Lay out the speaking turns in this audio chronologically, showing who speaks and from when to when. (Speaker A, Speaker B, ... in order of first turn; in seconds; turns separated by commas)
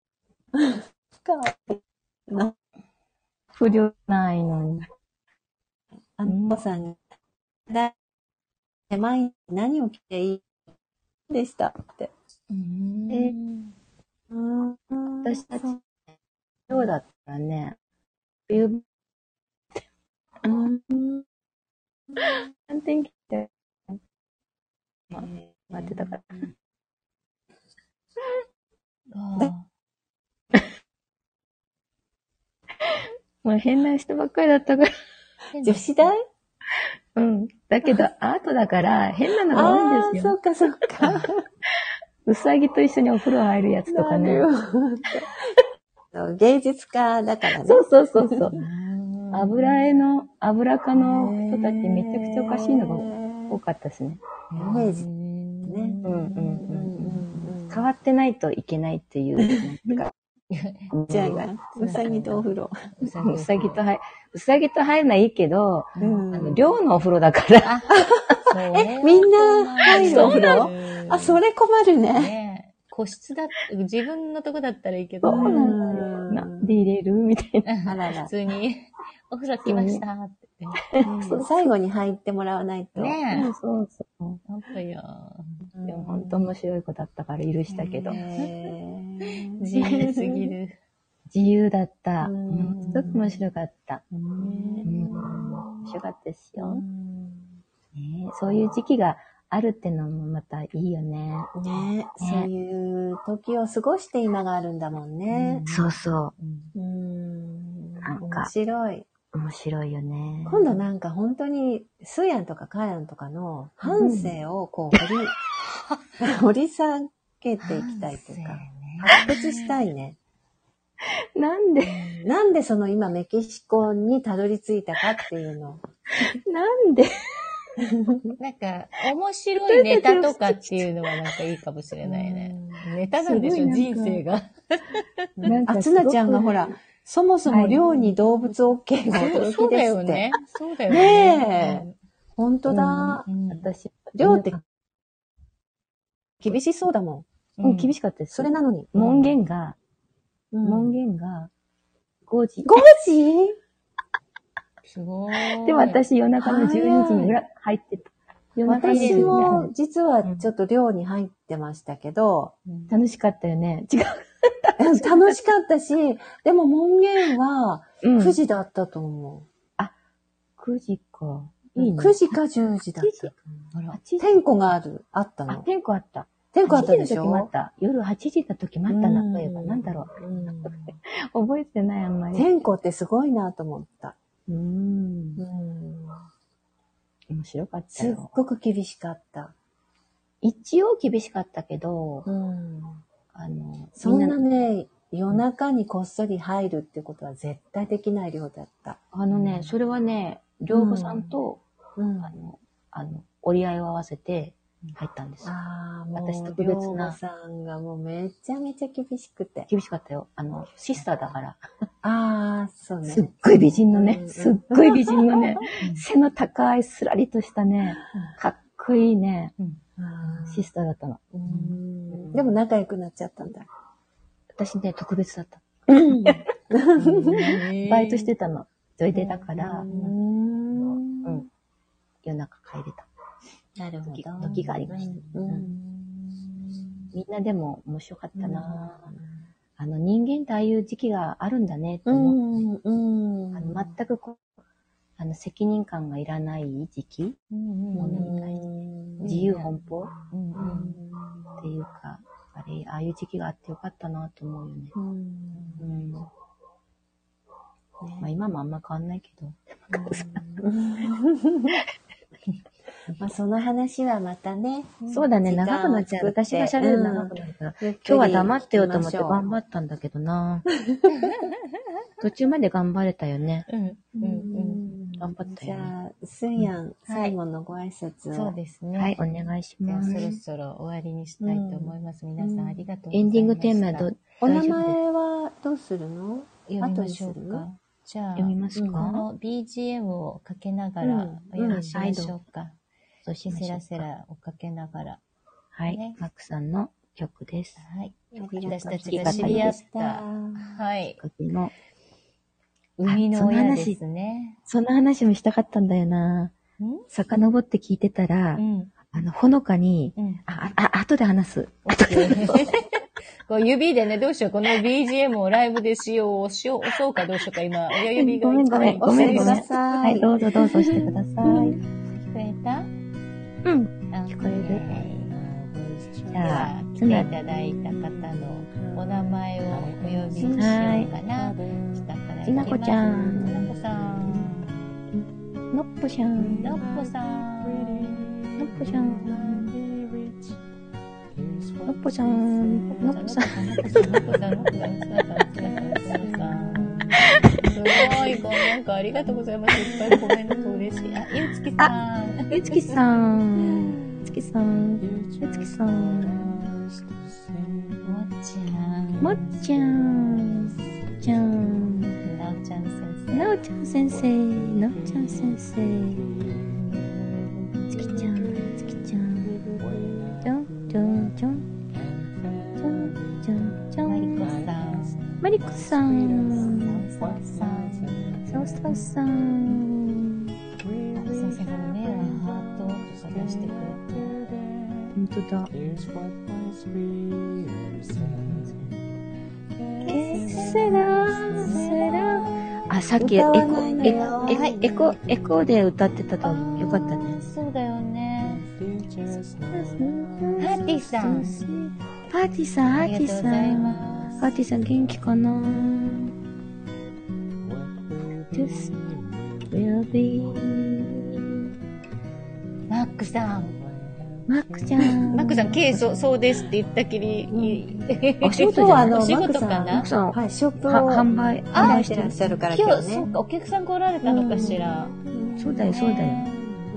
Speaker A: 0.5-2.5, Speaker B: 3.6-4.9, Speaker A: 6.2-7.0, Speaker B: 6.2-6.6, Speaker A: 7.7-7.9, Speaker A: 8.9-10.4, Speaker A: 11.3-12.1, Speaker C: 12.6-13.3, Speaker B: 13.1-13.3, Speaker A: 14.3-15.4, Speaker B: 15.2-15.8, Speaker B: 16.7-17.8, Speaker B: 18.5-18.8, Speaker A: 20.4-21.2, Speaker B: 22.2-24.0, Speaker B: 25.1-26.2, Speaker A: 25.1-26.1, Speaker C: 29.1-29.7, Speaker B: 32.8-34.9, Speaker C: 35.5-36.1, Speaker A: 35.6-36.2, Speaker B: 37.1-40.3, Speaker A: 37.8-38.1, Speaker A: 39.5-41.4, Speaker B: 42.2-44.5, Speaker A: 43.9-45.5, Speaker A: 46.1-48.7, Speaker B: 47.6-48.6, Speaker C: 48.5-49.3, Speaker B: 49.3-54.2, Speaker A: 51.0-53.6, Speaker C: 54.5-56.7, Speaker A: 54.6-55.0, Speaker A: 55.6-57.9, Speaker B: 56.0-60.1, Speaker C: 60.5-60.9, Speaker B: 60.9-61.5, Speaker A: 61.1-62.8, Speaker C: 61.8-63.8, Speaker B: 63.2-68.0, Speaker C: 66.0-66.3, Speaker A: 66.0-66.6, Speaker C: 67.6-67.9, Speaker C: 68.5-71.4, Speaker A: 68.8-72.3, Speaker B: 69.9-70.7, Speaker C: 72.1-76.0, Speaker B: 75.2-77.7, Speaker A: 75.2-76.7, Speaker C: 77.7-81.4, Speaker A: 77.8-78.3, Speaker B: 79.7-80.0, Speaker B: 81.0-81.7, Speaker A: 81.3-83.2, Speaker C: 82.9-83.5, Speaker B: 83.3-84.4, Speaker C: 84.5-85.7, Speaker A: 85.7-86.5, Speaker B: 85.8-88.2, Speaker A: 87.7-90.5, Speaker C: 88.1-88.5, Speaker C: 89.2-90.8, Speaker B: 91.3-94.0, Speaker A: 92.2-93.4, Speaker A: 94.2-95.9, Speaker C: 94.4-94.9, Speaker B: 94.8-96.8, Speaker A: 96.6-97.6, Speaker B: 97.9-101.6, Speaker A: 101.5-105.6, Speaker B: 102.2-102.5, Speaker B: 105.3-106.3, Speaker C: 105.6-106.7, Speaker A: 106.7-109.1, Speaker B: 108.0-108.5, Speaker B: 109.3-110.7, Speaker A: 110.5-115.3, Speaker C: 113.8-114.1, Speaker B: 114.0-114.3, Speaker A: 116.2-120.2, Speaker C: 117.6-119.7, Speaker B: 121.0-122.2, Speaker A: 121.8-125.8, Speaker B: 126.2-127.8, Speaker A: 127.8-128.3, Speaker C: 128.4-135.3, Speaker B: 129.7-131.4, Speaker A: 132.1-132.8, Speaker B: 133.2-134.2, Speaker A: 135.4-140.3, Speaker B: 135.4-136.6, Speaker B: 137.5-137.8, Speaker C: 139.1-141.9, Speaker A: 140.9-143.2, Speaker B: 142.7-144.6, Speaker C: 143.3-143.7, Speaker A: 144.2-144.6, Speaker A: 146.4-147.2, Speaker C: 147.6-147.9, Speaker B: 147.6-149.8, Speaker A: 148.3-148.9, Speaker C: 148.9-149.3, Speaker A: 150.5-151.0, Speaker B: 150.6-151.5, Speaker B: 152.3-152.8, Speaker A: 152.6-153.6, Speaker C: 154.8-156.0, Speaker B: 155.6-159.7, Speaker A: 156.4-157.3, Speaker C: 158.7-159.6, Speaker A: 158.7-162.5, Speaker C: 162.7-162.9, Speaker B: 162.9-165.4, Speaker A: 164.8-169.5, Speaker B: 168.0-168.4, Speaker B: 170.6-172.4, Speaker A: 171.8-173.3, Speaker B: 173.0-173.3, Speaker C: 173.7-174.0, Speaker B: 173.9-174.4, Speaker A: 174.2-175.7, Speaker B: 175.5-180.1, Speaker A: 176.5-177.5, Speaker A: 178.9-180.9, Speaker B: 180.7-182.5, Speaker A: 182.3-184.2, Speaker B: 184.5-185.4, Speaker A: 185.4-186.2, Speaker B: 187.3-188.3, Speaker A: 187.9-189.5, Speaker B: 190.4-192.3, Speaker A: 192.2-193.0, Speaker B: 193.3-194.4, Speaker A: 194.0-199.6, Speaker B: 199.1-201.6, Speaker A: 200.7-201.3, Speaker A: 202.0-202.3, Speaker B: 202.2-205.5, Speaker A: 205.4-209.7, Speaker B: 206.1-207.2, Speaker B: 209.7-211.6, Speaker A: 212.0-213.3, Speaker B: 213.1-219.5, Speaker A: 213.9-215.6, Speaker A: 220.0-220.7, Speaker B: 220.4-221.4, Speaker A: 221.4-223.7, Speaker C: 221.4-221.8, Speaker B: 222.1-222.5, Speaker B: 224.6-226.4, Speaker A: 225.9-227.6, Speaker C: 227.0-228.3, Speaker B: 227.3-229.9, Speaker A: 229.1-231.4, Speaker C: 229.8-230.1, Speaker B: 231.2-231.5, Speaker B: 232.2-233.1, Speaker A: 233.8-235.8, Speaker B: 234.1-235.7, Speaker C: 234.4-234.8, Speaker B: 237.1-239.1, Speaker A: 238.3-239.3, Speaker B: 239.8-242.4, Speaker A: 242.1-243.9, Speaker B: 243.5-244.4, Speaker B: 245.2-247.4, Speaker C: 247.5-248.3, Speaker B: 247.9-248.6, Speaker A: 248.0-249.3, Speaker C: 249.2-249.7, Speaker B: 249.2-250.1, Speaker C: 250.3-251.0, Speaker A: 250.6-251.7, Speaker B: 251.6-254.9, Speaker A: 254.9-255.9, Speaker B: 255.8-256.3, Speaker A: 258.0-258.3, Speaker B: 258.2-260.4, Speaker A: 259.9-261.8, Speaker A: 263.2-269.4, Speaker C: 265.0-265.3, Speaker B: 265.1-270.6, Speaker C: 271.1-271.6, Speaker B: 272.2-273.7, Speaker C: 273.7-274.9, Speaker A: 274.2-278.6, Speaker B: 275.2-275.9, Speaker C: 277.1-277.4, Speaker C: 278.3-279.2, Speaker B: 279.0-280.4, Speaker C: 279.8-284.1, Speaker A: 281.4-282.8, Speaker B: 283.1-285.0, Speaker A: 284.4-287.6, Speaker C: 286.7-292.8, Speaker B: 288.4-289.2, Speaker A: 288.7-289.1, Speaker A: 291.0-291.9, Speaker B: 291.7-292.4, Speaker B: 293.2-294.1, Speaker C: 293.5-295.2, Speaker B: 295.7-297.8, Speaker C: 295.9-296.2, Speaker C: 297.8-301.2, Speaker A: 298.4-300.8, Speaker B: 298.6-299.7, Speaker B: 301.2-301.7, Speaker C: 303.0-304.6, Speaker B: 303.1-304.0, Speaker B: 304.7-306.5, Speaker C: 306.8-307.1, Speaker B: 307.1-312.8, Speaker C: 308.6-308.9, Speaker C: 310.2-310.4, Speaker C: 311.9-319.7, Speaker B: 318.1-321.8, Speaker A: 318.9-320.3, Speaker A: 321.4-321.8, Speaker C: 322.1-322.9, Speaker B: 323.6-324.8, Speaker C: 324.1-325.4, Speaker C: 326.3-334.7, Speaker B: 326.3-327.3, Speaker B: 330.6-331.1, Speaker B: 332.5-333.7, Speaker B: 335.7-336.8, Speaker C: 336.5-338.2, Speaker B: 338.6-339.8, Speaker C: 339.2-339.5, Speaker B: 341.9-343.6, Speaker C: 342.9-353.0, Speaker B: 352.5-356.7, Speaker C: 358.0-359.6, Speaker B: 359.2-362.2, Speaker C: 362.2-363.6, Speaker B: 363.3-366.4, Speaker C: 366.7-367.7, Speaker B: 367.9-369.8, Speaker B: 370.4-371.7, Speaker B: 372.8-374.5, Speaker C: 374.1-375.4, Speaker B: 375.4-377.1, Speaker C: 376.5-378.5, Speaker B: 378.5-380.3, Speaker C: 381.1-384.4, Speaker B: 385.1-385.7, Speaker B: 388.3-388.9, Speaker C: 390.0-391.0, Speaker B: 390.1-397.4, Speaker A: 390.8-391.8, Speaker C: 391.5-392.5, Speaker A: 393.2-394.8, Speaker C: 393.9-395.0, Speaker C: 396.4-398.7, Speaker B: 399.7-406.3, Speaker C: 400.6-401.6, Speaker C: 403.0-404.5, Speaker B: 408.5-409.2, Speaker B: 409.7-411.6, Speaker C: 412.9-413.8, Speaker B: 414.5-415.7, Speaker C: 415.3-420.1, Speaker A: 417.5-417.8, Speaker B: 418.4-419.2, Speaker A: 418.7-423.3, Speaker B: 419.9-422.4, Speaker C: 421.7-422.0, Speaker C: 422.7-425.2, Speaker A: 424.2-425.6, Speaker B: 425.6-426.4, Speaker C: 425.9-426.8